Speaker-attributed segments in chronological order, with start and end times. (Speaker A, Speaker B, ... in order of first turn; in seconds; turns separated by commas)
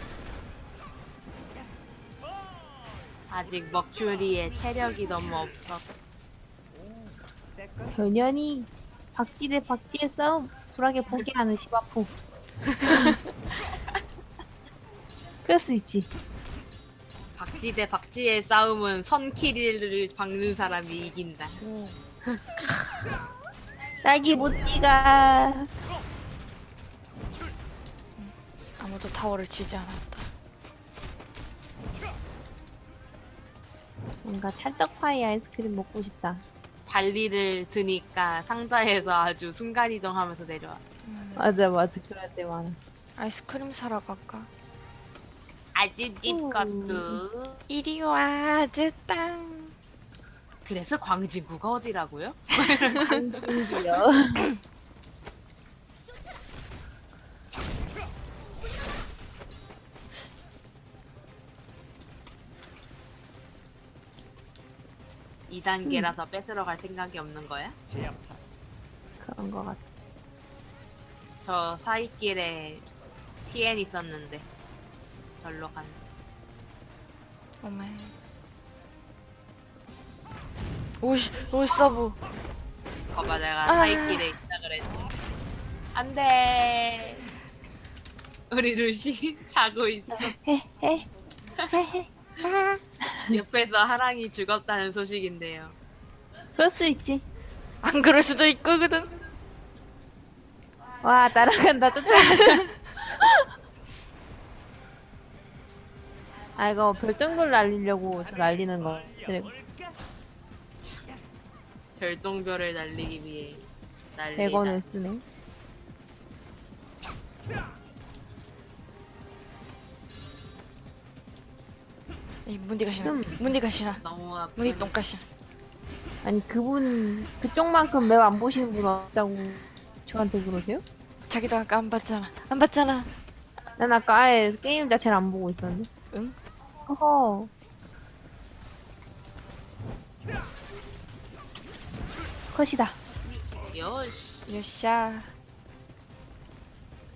Speaker A: 3.3-5.8, Speaker B: 7.9-12.1, Speaker A: 12.7-13.1, Speaker B: 15.4-16.1, Speaker A: 17.4-21.6, Speaker C: 21.6-22.0, Speaker A: 22.2-22.6, Speaker B: 24.0-25.7, Speaker C: 28.2-30.3, Speaker B: 34.2-36.4, Speaker A: 36.9-40.8, Speaker C: 41.0-41.5, Speaker B: 41.4-42.8, Speaker C: 43.2-44.5, Speaker A: 45.7-47.6, Speaker B: 46.2-47.2, Speaker C: 47.7-49.7, Speaker A: 50.6-53.4, Speaker B: 53.0-54.4, Speaker A: 65.5-67.8, Speaker B: 65.8-66.1, Speaker B: 69.2-69.8, Speaker A: 71.4-72.8, Speaker A: 73.5-74.5, Speaker A: 75.4-76.0, Speaker C: 77.6-78.1, Speaker C: 81.0-82.2, Speaker A: 83.1-85.0, Speaker C: 83.7-84.3, Speaker A: 85.9-87.2, Speaker A: 88.5-90.3, Speaker B: 90.1-91.0, Speaker B: 91.7-93.4, Speaker A: 93.3-95.7, Speaker B: 96.6-97.2, Speaker C: 97.8-99.1, Speaker B: 101.0-102.8, Speaker B: 106.6-109.5, Speaker A: 112.0-113.6, Speaker A: 114.2-114.8, Speaker B: 114.4-115.2, Speaker C: 122.5-124.0, Speaker B: 123.0-123.3, Speaker A: 124.0-124.9, Speaker C: 124.6-125.2, Speaker B: 126.2-130.8, Speaker C: 131.3-133.1, Speaker B: 133.8-135.9, Speaker B: 136.9-137.5, Speaker B: 142.5-143.0, Speaker A: 143.7-144.4, Speaker C: 144.5-145.3